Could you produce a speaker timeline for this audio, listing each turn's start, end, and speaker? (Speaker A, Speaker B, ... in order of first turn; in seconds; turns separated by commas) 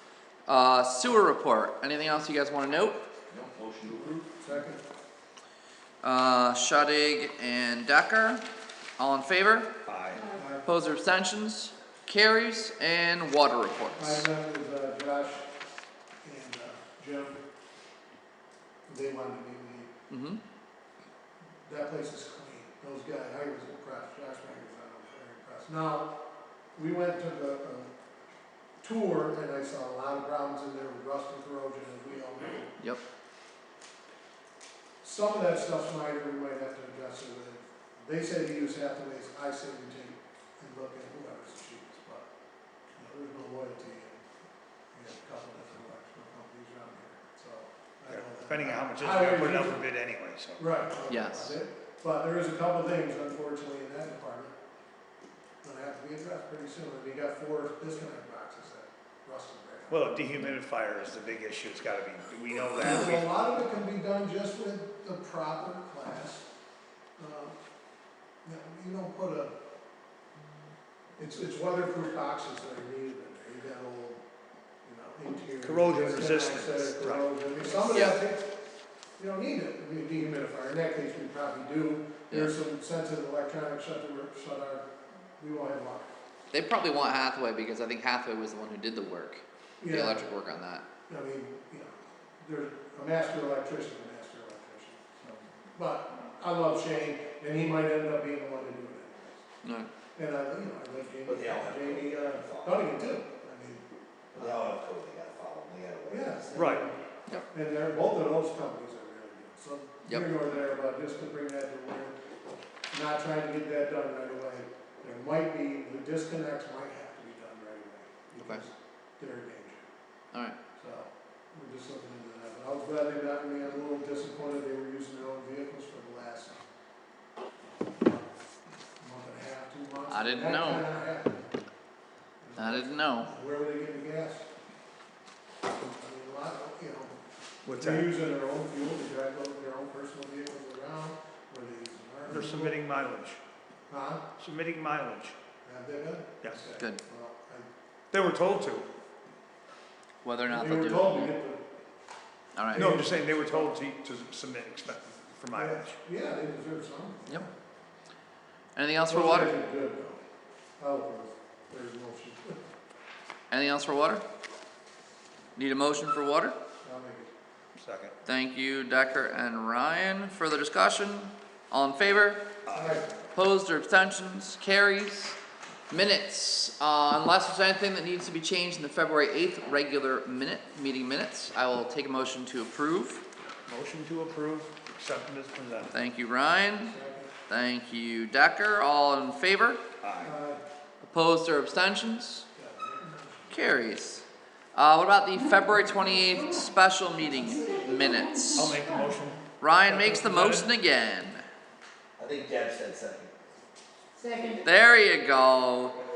Speaker A: 0.5-3.1, Speaker B: 3.3-4.2, Speaker C: 3.9-4.8, Speaker A: 6.0-8.4, Speaker A: 9.0-9.7, Speaker D: 9.8-10.3, Speaker C: 10.3-10.7, Speaker A: 10.7-14.3, Speaker C: 14.0-15.5, Speaker C: 16.2-17.4, Speaker C: 18.9-19.9, Speaker A: 20.1-20.4, Speaker C: 21.6-26.2, Speaker C: 26.8-27.9, Speaker C: 28.8-32.8, Speaker C: 35.0-42.3, Speaker C: 43.0-44.3, Speaker C: 44.9-49.8, Speaker D: 48.1-50.6, Speaker C: 50.6-54.5, Speaker A: 51.1-51.6, Speaker C: 55.6-60.2, Speaker D: 59.9-63.3, Speaker C: 62.8-66.5, Speaker C: 67.2-67.5, Speaker C: 68.4-69.5, Speaker C: 71.2-74.2, Speaker C: 74.8-78.6, Speaker D: 75.6-77.3, Speaker A: 77.9-78.2, Speaker C: 79.2-86.1, Speaker A: 86.5-90.9, Speaker C: 89.8-90.3, Speaker C: 91.1-99.5, Speaker A: 99.6-99.9, Speaker C: 100.2-104.8, Speaker B: 101.3-102.9, Speaker B: 104.3-106.6, Speaker C: 106.1-112.2, Speaker D: 106.5-106.8, Speaker A: 110.0-110.3, Speaker C: 112.9-119.8, Speaker C: 120.8-126.6, Speaker C: 129.0-131.5, Speaker A: 130.1-130.9, Speaker C: 132.4-134.5, Speaker A: 132.6-133.3, Speaker C: 135.8-137.2, Speaker D: 137.7-138.1, Speaker C: 137.8-142.8, Speaker D: 142.3-143.4, Speaker C: 143.9-144.3, Speaker D: 144.4-145.4, Speaker C: 145.6-147.7, Speaker D: 146.4-146.7, Speaker D: 148.1-148.9, Speaker A: 150.2-151.4, Speaker C: 150.5-151.6, Speaker A: 152.6-152.9, Speaker C: 152.7-153.8, Speaker D: 152.7-156.0, Speaker C: 155.5-157.5, Speaker A: 158.8-159.6, Speaker C: 159.1-160.2, Speaker C: 160.8-162.6, Speaker A: 163.5-164.2, Speaker A: 165.6-166.6, Speaker C: 166.8-167.3, Speaker D: 167.8-168.2, Speaker A: 168.2-172.5, Speaker D: 172.7-173.0, Speaker C: 172.7-173.1, Speaker A: 173.3-175.4, Speaker A: 175.9-183.2, Speaker D: 183.7-185.9, Speaker A: 185.9-186.9, Speaker C: 186.8-187.3, Speaker A: 187.5-189.8, Speaker D: 190.0-190.3, Speaker C: 190.2-190.6, Speaker A: 191.0-192.4, Speaker C: 192.6-193.8, Speaker A: 193.5-198.8, Speaker C: 197.3-198.1, Speaker E: 197.5-199.0, Speaker D: 198.5-200.7, Speaker A: 199.6-201.4, Speaker B: 202.2-203.3, Speaker E: 204.2-204.7, Speaker A: 204.6-206.0